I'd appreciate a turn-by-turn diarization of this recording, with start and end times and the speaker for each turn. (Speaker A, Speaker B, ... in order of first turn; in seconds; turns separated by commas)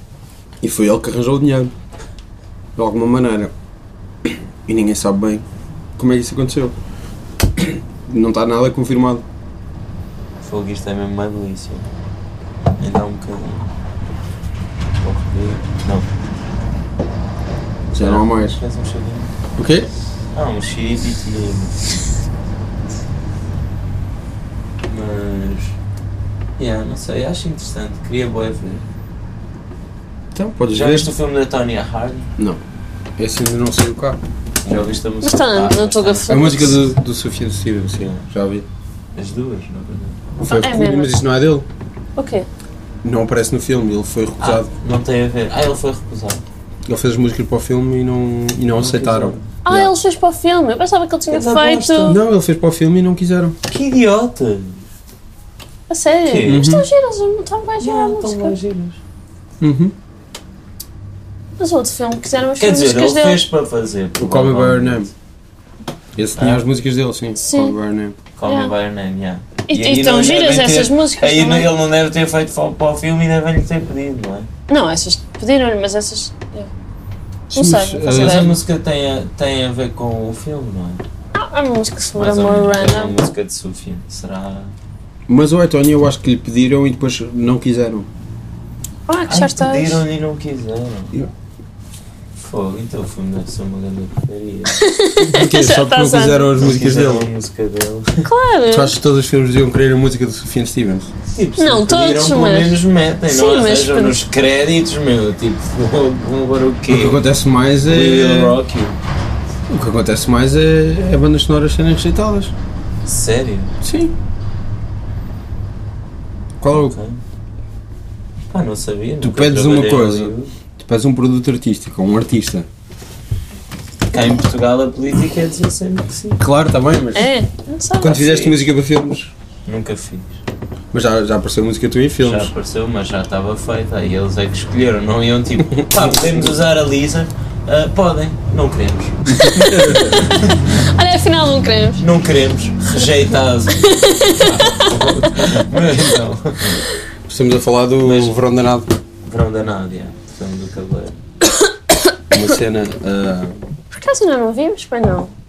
Speaker A: 0.6-1.7, Speaker A: 2.8-3.5, Speaker A: 4.2-5.4, Speaker A: 6.0-6.7, Speaker A: 7.5-9.2, Speaker B: 10.4-11.9, Speaker B: 12.8-13.7, Speaker B: 15.0-16.1, Speaker A: 17.9-18.6, Speaker B: 17.9-19.3, Speaker A: 19.6-19.9, Speaker B: 20.3-22.0, Speaker B: 24.9-25.8, Speaker B: 26.6-28.8, Speaker A: 30.3-31.1, Speaker B: 30.7-32.3, Speaker A: 33.2-34.2, Speaker B: 34.6-36.9, Speaker C: 35.2-36.8, Speaker A: 36.3-38.6, Speaker B: 38.0-38.2, Speaker B: 39.1-40.2, Speaker A: 40.4-41.7, Speaker C: 40.4-41.1, Speaker C: 42.1-42.5, Speaker A: 43.0-44.7, Speaker B: 44.4-46.4, Speaker A: 46.9-49.9, Speaker B: 48.7-49.5, Speaker C: 49.6-52.2, Speaker B: 51.3-52.2, Speaker A: 52.0-53.5, Speaker B: 53.7-54.8, Speaker C: 55.9-58.5, Speaker B: 56.2-56.7, Speaker A: 56.5-56.9, Speaker B: 57.8-59.0, Speaker A: 59.6-59.9, Speaker C: 61.6-63.4, Speaker B: 62.6-65.1, Speaker A: 64.2-65.1, Speaker A: 66.2-68.2, Speaker B: 66.4-66.6, Speaker C: 67.4-67.8, Speaker B: 68.3-74.5, Speaker C: 68.4-68.7, Speaker C: 69.7-71.7, Speaker C: 74.7-76.7, Speaker A: 77.5-78.6, Speaker C: 77.5-78.5, Speaker B: 78.1-81.0, Speaker C: 81.3-83.1, Speaker B: 82.2-84.7, Speaker A: 85.3-88.1, Speaker C: 89.1-90.0, Speaker B: 89.3-91.1, Speaker B: 92.4-94.8, Speaker C: 94.8-96.5, Speaker A: 95.2-97.3, Speaker B: 96.6-98.3, Speaker C: 98.2-98.9, Speaker A: 98.7-101.1, Speaker B: 101.3-107.2, Speaker C: 101.6-104.2, Speaker A: 106.9-108.6, Speaker B: 107.8-109.0, Speaker A: 109.7-112.5, Speaker B: 113.0-113.7, Speaker A: 113.8-114.1, Speaker A: 116.6-117.0, Speaker B: 116.7-117.2, Speaker B: 118.5-120.5, Speaker A: 119.2-122.7, Speaker B: 124.1-126.4, Speaker A: 126.4-127.3, Speaker C: 127.1-128.2, Speaker A: 128.0-129.3, Speaker B: 128.1-128.7, Speaker B: 129.7-130.4, Speaker A: 130.9-132.5, Speaker B: 132.2-140.6, Speaker A: 135.7-136.6, Speaker A: 139.3-140.2, Speaker C: 139.6-142.0, Speaker B: 142.0-146.8, Speaker C: 143.9-144.9, Speaker A: 147.3-148.9, Speaker B: 148.0-148.4, Speaker B: 149.2-151.2, Speaker A: 152.3-153.7, Speaker C: 153.9-155.3